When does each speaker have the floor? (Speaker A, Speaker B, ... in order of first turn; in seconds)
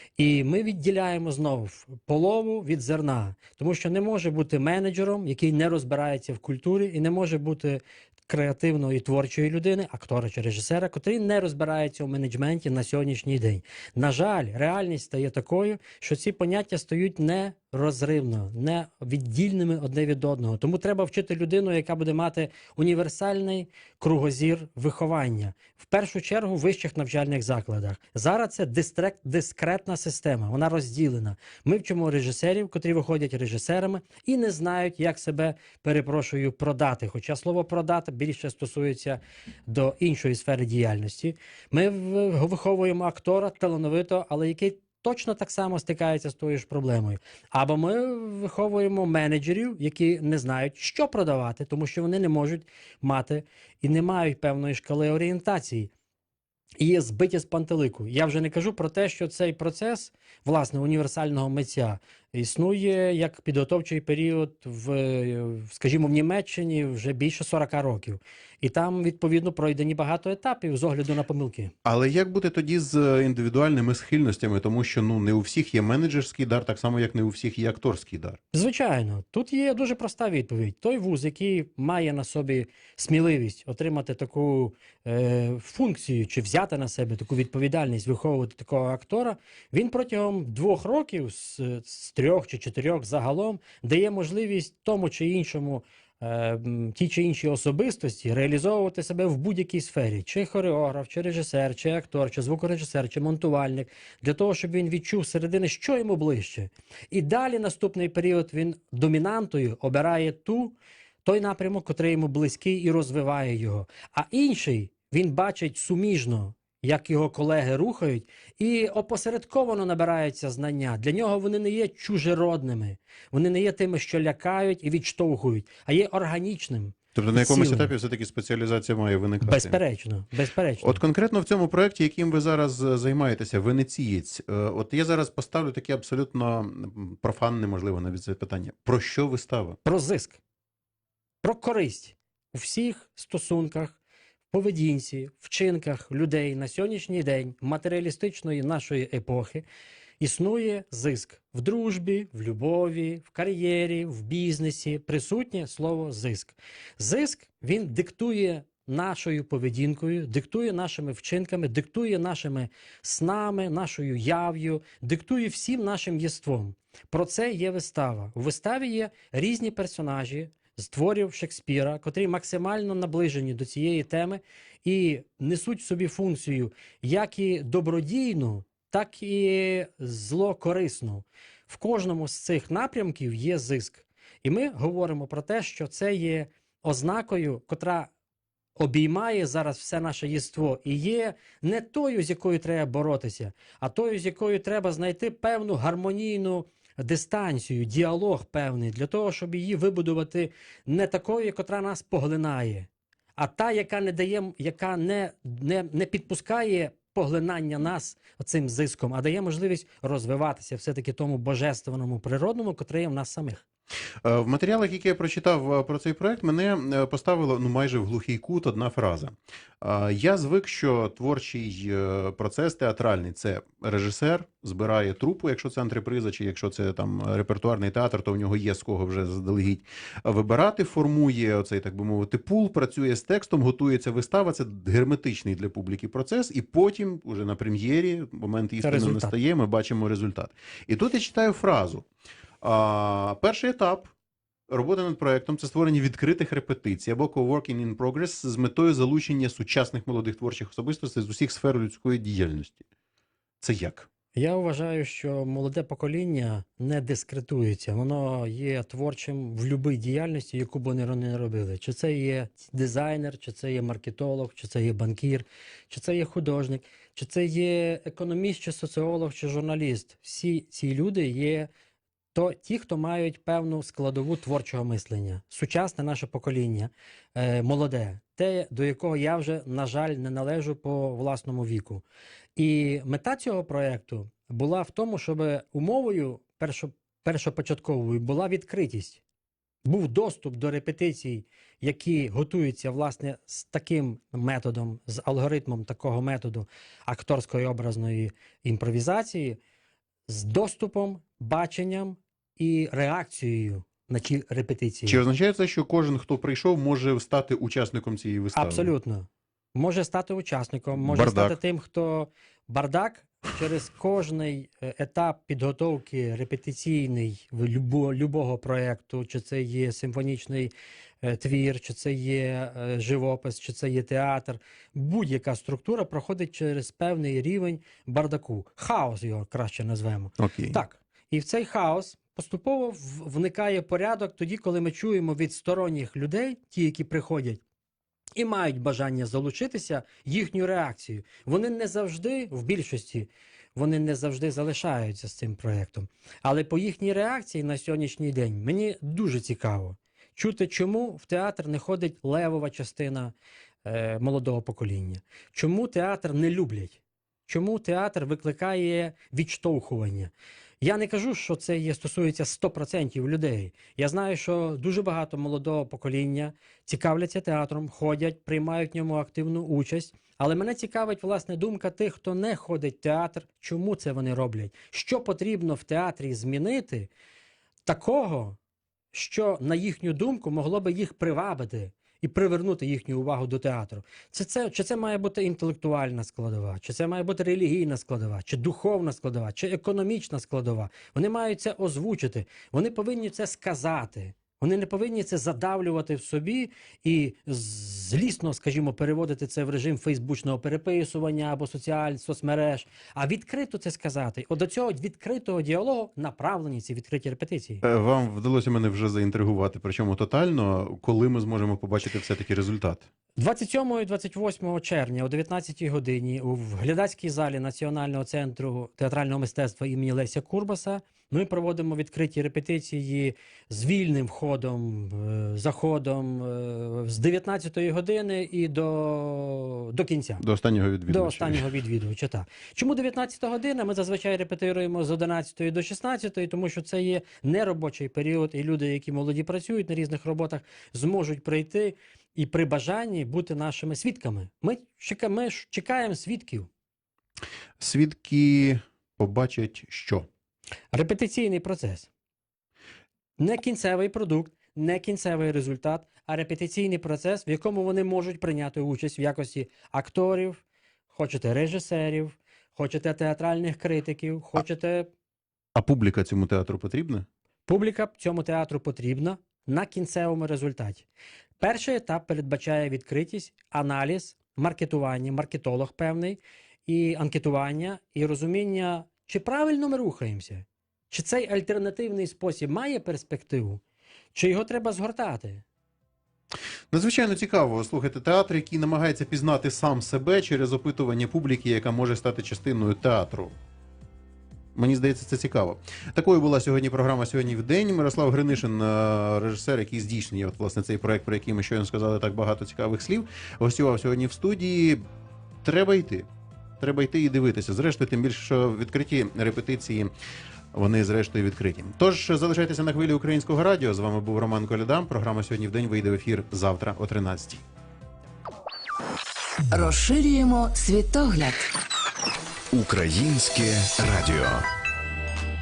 Speaker A: 0.2-55.9, 56.8-71.7, 78.5-127.9, 129.4-131.0, 139.8-140.4, 141.4-144.0, 144.5-149.7, 150.2-188.1, 188.8-213.6, 238.8-239.4, 254.3-271.7, 272.3-282.0, 282.6-289.2, 289.9-299.6, 300.3-305.2, 308.5-320.7, 321.2-337.6, 338.4-377.1, 377.9-378.6, 379.1-407.8, 413.4-430.4, 431.1-446.7, 450.9-452.1, 453.4-465.1, 467.7-471.1, 471.6-483.8, 484.3-485.6
Speaker B: 71.8-78.4, 127.2-129.8, 130.8-139.8, 214.2-242.1, 242.6-244.1, 244.7-252.8, 253.6-254.1, 305.1-308.9, 311.0-311.6, 330.4-330.8, 407.8-413.1, 430.4-431.7, 447.8-450.3, 465.8-467.3, 486.9-493.5, 494.8-505.0, 505.6-506.3, 506.8-510.1, 510.7-517.6
Speaker C: 519.7-521.7
Speaker D: 522.7-524.7